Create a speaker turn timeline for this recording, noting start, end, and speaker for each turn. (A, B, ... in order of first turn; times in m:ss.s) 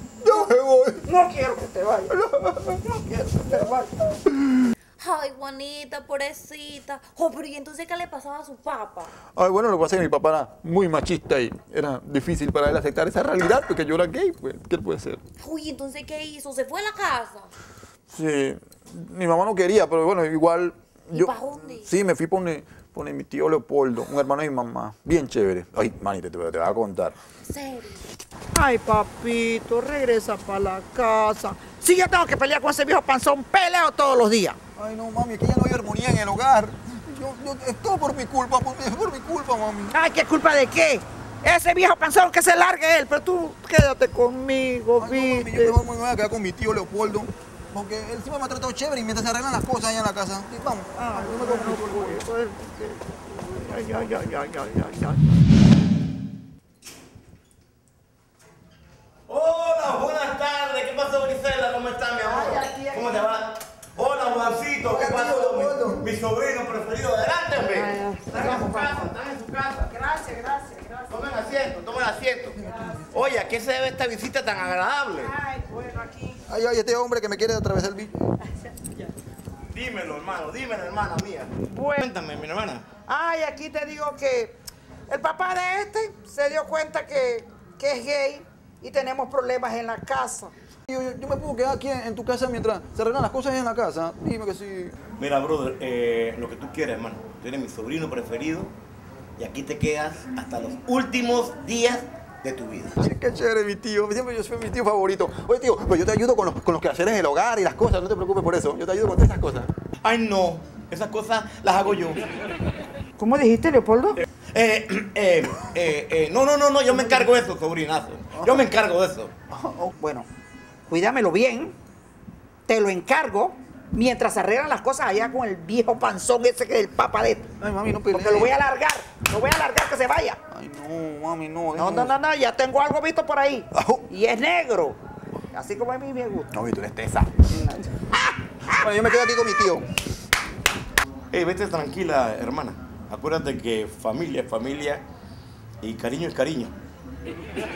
0:00.2-0:01.1 A
0:01.0-0:02.2 B
0:02.1-0:02.8 A
0:02.7-0:04.0 B
0:05.0-0:09.1 C
0:09.3-0:15.2 A
0:15.4-0:17.5 C
0:18.1-0:27.2 A
0:21.1-0:21.9 C
0:27.5-0:28.0 C
0:28.5-0:34.6 B
0:34.8-0:40.0 A
0:39.9-0:45.8 B
0:45.0-0:52.2 A
0:51.0-0:55.3 B
0:59.3-1:09.9 D
1:02.3-1:03.2 B
1:04.8-1:06.0 A
1:07.7-1:09.1 B
1:09.9-1:11.1 B
1:11.1-1:15.4 D
1:15.2-1:16.4 B
1:16.5-1:18.2 A
1:19.7-1:22.9 D
1:21.7-1:22.0 B
1:23.1-1:24.6 B
1:25.1-1:30.5 B
1:30.9-1:35.0 A
1:35.2-1:38.7 D
1:39.4-1:43.0 D
1:43.0-1:49.7 A
1:50.0-1:52.2 D
1:53.2-1:54.2 B
1:54.5-1:59.3 D
1:56.9-1:57.3 A
1:58.4-1:58.7 A
1:59.5-2:00.0 A
2:00.0-2:00.3 B
2:00.9-2:01.8 B
2:02.7-2:07.5 B
2:07.6-2:08.6 A
2:08.1-2:10.4 B
2:10.5-2:12.2 A
2:11.8-2:15.0 B
2:13.7-2:14.1 A
2:15.5-2:16.5 B
2:16.5-2:17.5 A
2:17.5-2:18.9 B
2:18.7-2:19.9 A
2:21.3-2:25.0 D
2:25.8-2:26.7 D